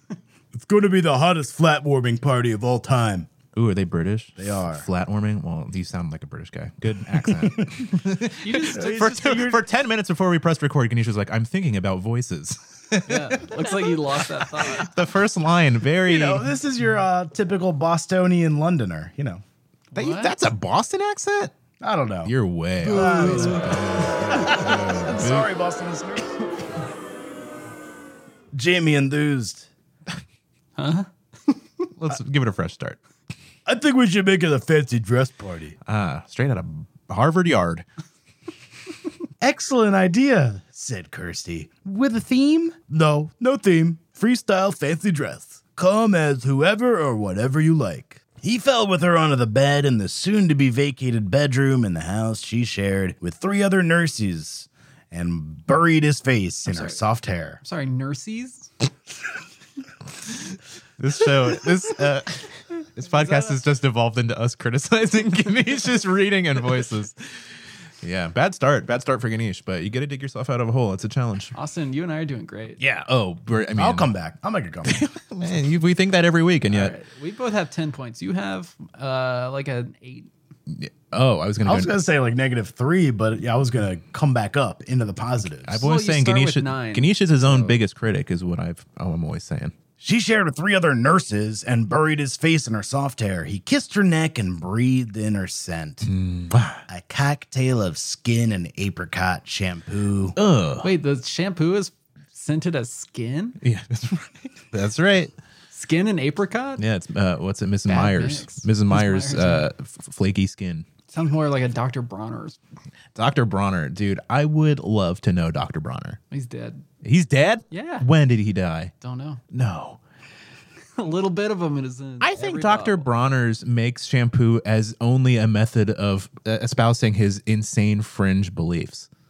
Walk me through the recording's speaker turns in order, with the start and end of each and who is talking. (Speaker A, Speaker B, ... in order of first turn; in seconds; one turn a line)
Speaker A: 0.6-3.3
Speaker B: 3.5-14.0
Speaker A: 4.4-4.9
Speaker A: 7.3-7.7
Speaker C: 8.4-9.2
Speaker A: 8.7-9.6
Speaker C: 13.1-15.0
Speaker B: 14.6-16.4
Speaker A: 16.0-19.4
Speaker C: 19.9-20.4
Speaker B: 19.9-21.5
Speaker A: 21.8-22.3
Speaker B: 22.2-25.5
Speaker C: 22.8-24.0
Speaker A: 22.9-26.5
Speaker A: 28.5-29.7
Speaker C: 30.8-31.6
Speaker B: 31.9-33.0
Speaker A: 33.7-35.8
Speaker B: 35.9-37.9
Speaker A: 39.4-57.6
Speaker C: 56.7-57.0
Speaker C: 57.6-58.7
Speaker B: 61.0-71.5
Speaker C: 63.1-63.6
Speaker C: 71.5-72.8
Speaker B: 72.8-74.1
Speaker A: 73.8-75.0
Speaker B: 74.8-77.0
Speaker C: 76.7-80.3
Speaker B: 80.7-81.9
Speaker A: 81.7-85.8
Speaker B: 85.7-89.8
Speaker C: 85.8-87.8
Speaker A: 90.0-96.1
Speaker B: 96.0-96.8
Speaker A: 96.9-100.4
Speaker B: 100.4-100.9
Speaker C: 100.8-103.6
Speaker B: 103.6-105.3
Speaker C: 105.7-106.8
Speaker B: 106.8-110.9
Speaker C: 107.9-109.7
Speaker C: 111.1-112.6
Speaker B: 113.2-116.2
Speaker C: 116.3-116.8
Speaker B: 117.0-118.9
Speaker C: 117.7-118.1
Speaker C: 119.0-119.4
Speaker B: 119.5-120.0
Speaker C: 121.0-123.1
Speaker B: 122.2-129.1